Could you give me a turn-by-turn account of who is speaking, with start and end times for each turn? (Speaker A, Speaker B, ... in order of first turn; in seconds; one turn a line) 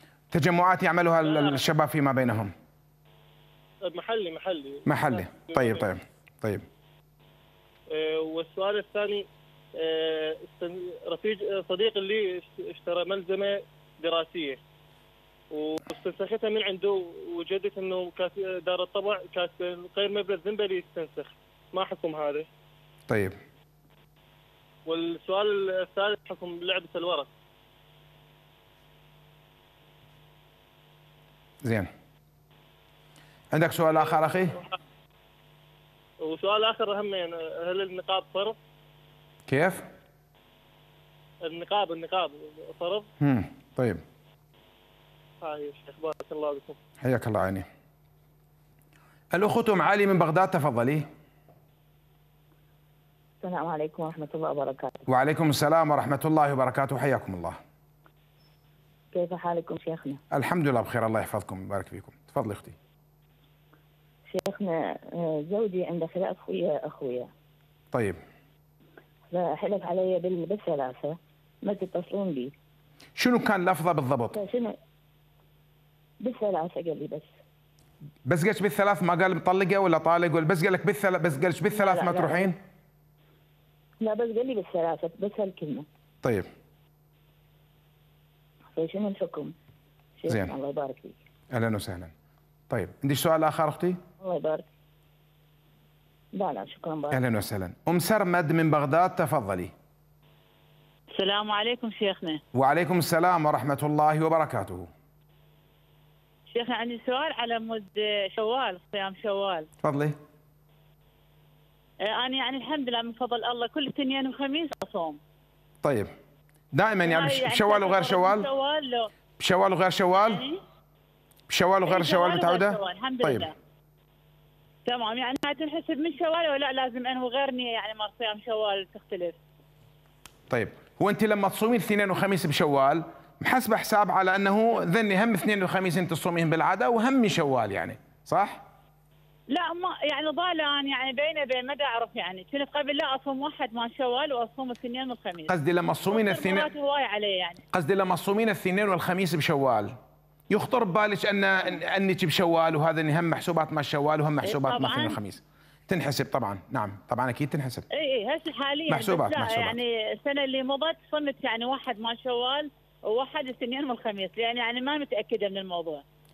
Speaker A: 0.3-2.5
Speaker B: 1.2-1.6
Speaker B: 3.9-5.9
Speaker A: 4.9-6.6
Speaker B: 7.9-9.2
Speaker B: 9.8-14.6
Speaker B: 15.5-22.5
Speaker A: 23.1-23.4
Speaker B: 24.9-27.3
Speaker A: 31.6-31.9
Speaker A: 33.5-34.6
Speaker B: 36.2-38.6
Speaker A: 39.5-39.9
Speaker B: 41.5-43.1
Speaker A: 43.2-44.0
Speaker B: 45.4-46.8
Speaker A: 47.0-47.7
Speaker A: 49.3-51.1
Speaker C: 53.4-55.0
Speaker A: 55.1-57.6
Speaker C: 59.1-60.2
Speaker A: 60.3-62.8
Speaker C: 64.3-67.3
Speaker A: 67.9-68.2
Speaker C: 69.3-72.5
Speaker A: 73.2-74.4
Speaker C: 74.3-74.8
Speaker C: 76.2-77.4
Speaker A: 78.3-82.6
Speaker C: 81.7-82.5
Speaker C: 84.0-85.9
Speaker A: 86.2-86.5
Speaker C: 88.8-89.5
Speaker C: 90.2-91.2
Speaker A: 91.5-92.1
Speaker A: 92.7-94.0
Speaker C: 94.2-94.7
Speaker C: 96.3-97.2
Speaker A: 97.1-99.7
Speaker D: 101.1-102.4
Speaker A: 102.5-104.9
Speaker D: 106.5-109.7
Speaker A: 109.8-110.2
Speaker D: 112.0-115.2
Speaker A: 115.8-116.1
Speaker A: 116.7-118.5
Speaker D: 117.0-119.1
Speaker A: 119.4-120.4
Speaker D: 120.2-120.6
Speaker A: 121.5-123.5
Speaker D: 121.9-123.5
Speaker D: 124.9-129.4
Speaker A: 130.5-138.6
Speaker D: 139.5-145.5
Speaker A: 145.5-146.7
Speaker D: 146.1-147.6
Speaker A: 147.7-149.9
Speaker A: 150.5-157.8
Speaker D: 154.4-155.2
Speaker D: 157.9-166.0
Speaker A: 158.9-159.8